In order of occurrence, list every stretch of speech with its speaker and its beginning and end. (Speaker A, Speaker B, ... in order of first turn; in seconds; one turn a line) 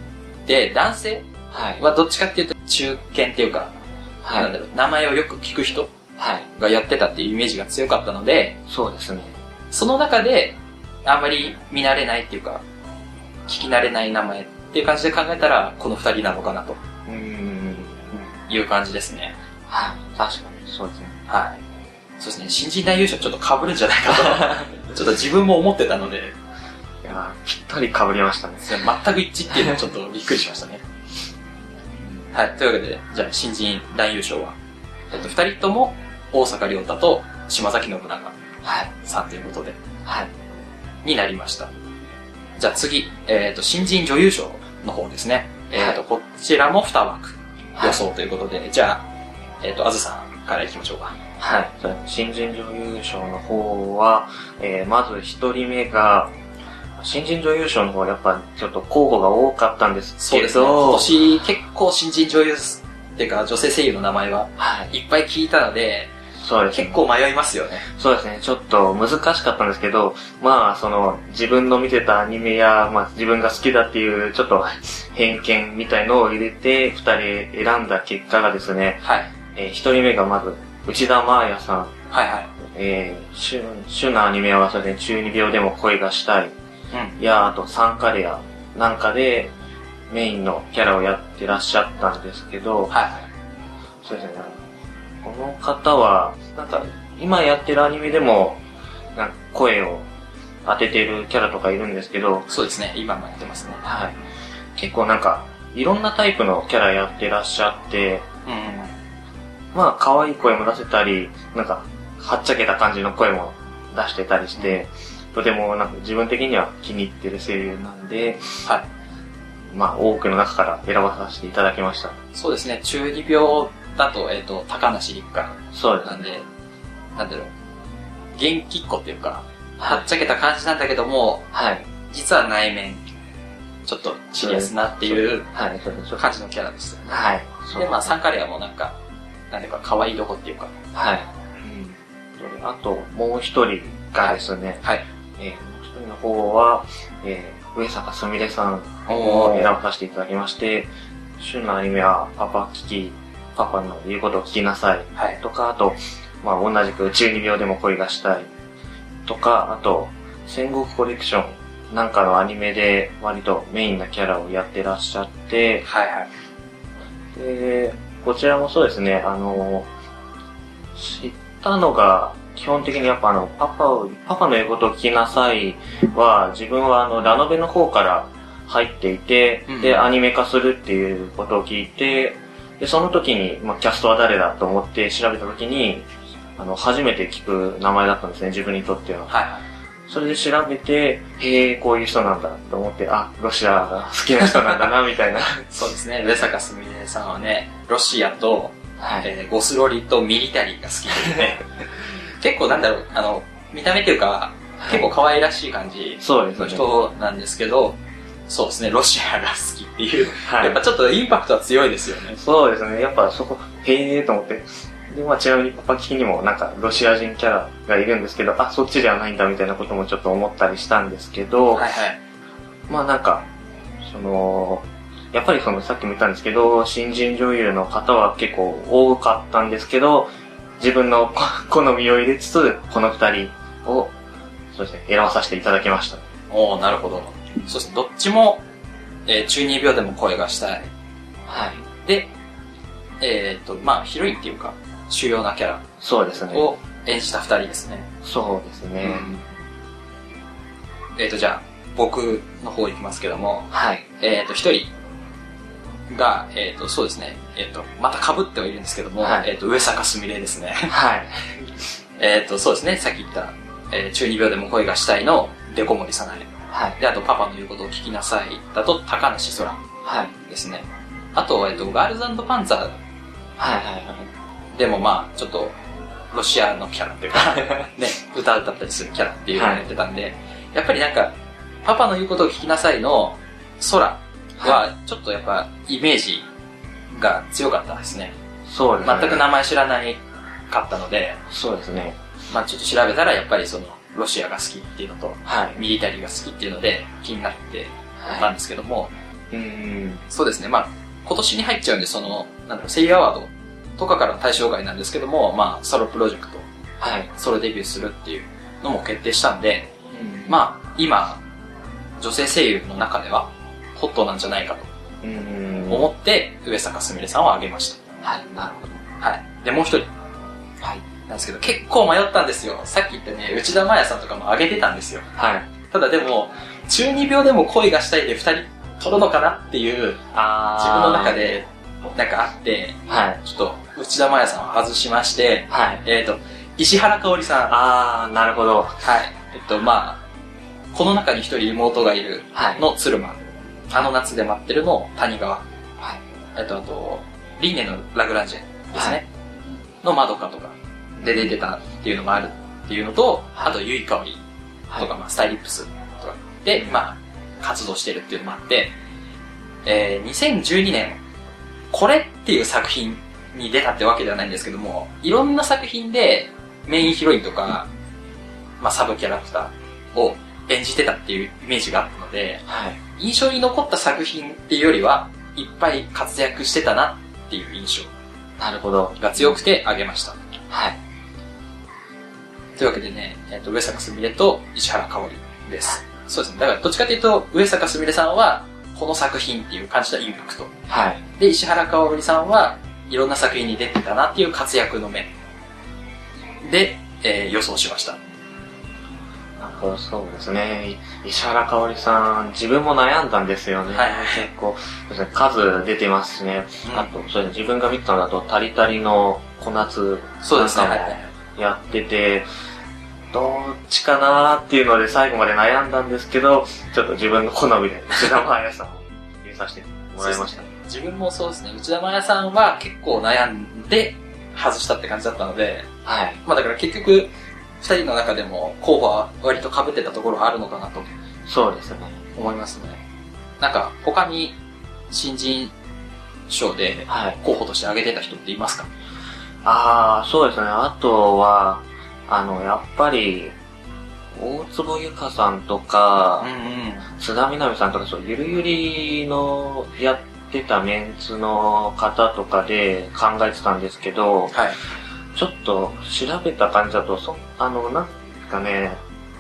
Speaker A: 0.5-1.2
Speaker B: 1.5-1.8
Speaker A: 1.8-3.7
Speaker B: 4.2-4.5
Speaker A: 4.3-5.9
Speaker B: 6.2-6.5
Speaker A: 6.6-8.6
Speaker B: 8.7-9.4
Speaker A: 9.7-12.6
Speaker A: 13.5-16.8
Speaker B: 17.1-18.3
Speaker A: 18.5-19.3
Speaker B: 19.7-21.1
Speaker A: 21.3-21.6
Speaker A: 22.2-26.4
Speaker B: 27.0-28.8
Speaker A: 28.6-30.8
Speaker A: 32.3-34.5
Speaker A: 35.1-38.3
Speaker B: 38.6-38.9
Speaker A: 39.0-39.8
Speaker B: 40.0-40.3
Speaker A: 41.0-41.7
Speaker A: 42.6-49.1
Speaker B: 47.8-48.0
Speaker A: 49.6-51.2
Speaker B: 51.4-56.3
Speaker B: 57.0-61.1
Speaker A: 60.2-66.1
Speaker B: 64.6-64.9
Speaker B: 66.4-67.0
Speaker A: 66.7-67.9
Speaker B: 67.9-81.9
Speaker A: 79.0-79.3
Speaker A: 82.1-82.5
Speaker B: 82.6-86.5
Speaker B: 87.2-89.5
Speaker B: 90.1-92.9
Speaker A: 92.9-93.3
Speaker B: 94.0-94.6
Speaker B: 95.2-98.6
Speaker B: 99.2-100.0
Speaker B: 100.6-102.5
Speaker A: 102.5-103.8
Speaker B: 103.8-104.2
Speaker B: 104.8-108.2
Speaker A: 108.5-108.9
Speaker B: 109.7-118.7
Speaker B: 119.7-122.2
Speaker A: 122.3-126.5
Speaker B: 125.7-126.2
Speaker A: 127.2-127.5
Speaker A: 128.3-131.5
Speaker B: 129.8-130.1
Speaker B: 131.5-131.8
Speaker A: 132.1-133.0
Speaker A: 133.8-135.5
Speaker B: 134.4-136.3
Speaker A: 136.2-137.2
Speaker B: 137.1-138.1
Speaker A: 137.7-138.9
Speaker A: 139.5-140.8
Speaker B: 140.9-144.8
Speaker A: 144.2-145.0
Speaker B: 145.4-158.5
Speaker A: 149.1-149.7
Speaker B: 159.2-165.8
Speaker A: 165.8-166.3
Speaker B: 167.3-169.9
Speaker B: 170.9-189.3
Speaker A: 179.7-180.1
Speaker A: 189.3-189.6
Speaker B: 190.1-195.7
Speaker A: 195.7-201.7
Speaker B: 199.0-199.3
Speaker A: 202.4-212.4
Speaker B: 204.8-205.1
Speaker B: 206.2-206.9
Speaker B: 210.4-210.8
Speaker B: 212.3-221.9
Speaker A: 221.7-222.2
Speaker B: 222.9-223.5
Speaker B: 224.0-234.1
Speaker B: 234.7-236.3
Speaker A: 236.5-238.6
Speaker A: 239.3-240.9
Speaker B: 241.5-241.8
Speaker A: 242.0-242.3
Speaker A: 243.2-245.8
Speaker B: 246.0-246.7
Speaker A: 246.5-248.1
Speaker B: 248.2-249.4
Speaker A: 249.0-249.4
Speaker A: 251.2-254.9
Speaker B: 253.7-254.0
Speaker A: 256.1-260.9
Speaker B: 259.2-259.5
Speaker B: 260.9-261.4
Speaker A: 262.2-269.8
Speaker B: 266.7-267.0
Speaker B: 270.0-270.3
Speaker A: 270.5-272.9
Speaker B: 273.6-274.3
Speaker A: 274.7-275.7
Speaker A: 276.3-286.4
Speaker B: 279.5-279.8
Speaker A: 287.1-288.3
Speaker B: 288.7-289.4
Speaker A: 289.0-291.4
Speaker B: 291.5-292.2
Speaker A: 292.5-299.1
Speaker B: 295.4-295.8
Speaker B: 298.2-298.5
Speaker B: 299.5-300.2
Speaker A: 300.3-306.6
Speaker B: 307.0-307.3
Speaker A: 307.3-309.9
Speaker B: 310.1-310.5
Speaker A: 310.5-311.4
Speaker A: 312.2-314.9
Speaker B: 315.2-316.1
Speaker A: 315.9-318.0
Speaker B: 318.2-319.0
Speaker A: 319.2-320.1
Speaker A: 321.3-325.2
Speaker B: 325.3-325.7
Speaker A: 325.9-330.2
Speaker B: 330.3-331.4
Speaker A: 330.8-337.8
Speaker B: 333.1-333.4
Speaker B: 335.7-336.0
Speaker B: 337.7-339.0
Speaker A: 339.0-340.2
Speaker A: 340.9-345.6
Speaker B: 342.5-342.8
Speaker A: 346.6-349.2
Speaker B: 348.9-349.2
Speaker A: 350.0-354.4
Speaker B: 351.2-351.5
Speaker A: 354.9-358.9
Speaker A: 359.8-361.2
Speaker A: 361.9-367.9
Speaker A: 368.8-378.1
Speaker B: 372.7-373.0
Speaker B: 378.6-379.5
Speaker A: 379.2-380.4
Speaker B: 380.7-381.0
Speaker A: 382.8-390.7
Speaker B: 390.9-391.2
Speaker A: 391.4-395.3
Speaker A: 396.6-398.2
Speaker B: 399.6-412.5
Speaker A: 403.9-404.5
Speaker A: 406.8-407.1
Speaker A: 410.4-411.3
Speaker B: 413.3-420.7
Speaker A: 420.2-425.9
Speaker B: 426.0-426.4
Speaker A: 426.4-427.3
Speaker A: 427.8-431.1
Speaker B: 431.5-432.2
Speaker A: 432.4-433.0
Speaker A: 433.6-434.5
Speaker A: 435.1-435.7
Speaker A: 436.5-438.9
Speaker B: 437.1-437.4
Speaker B: 439.6-443.5
Speaker B: 444.3-446.5
Speaker A: 446.4-447.1
Speaker B: 447.2-454.5
Speaker A: 454.5-454.8
Speaker B: 455.3-459.0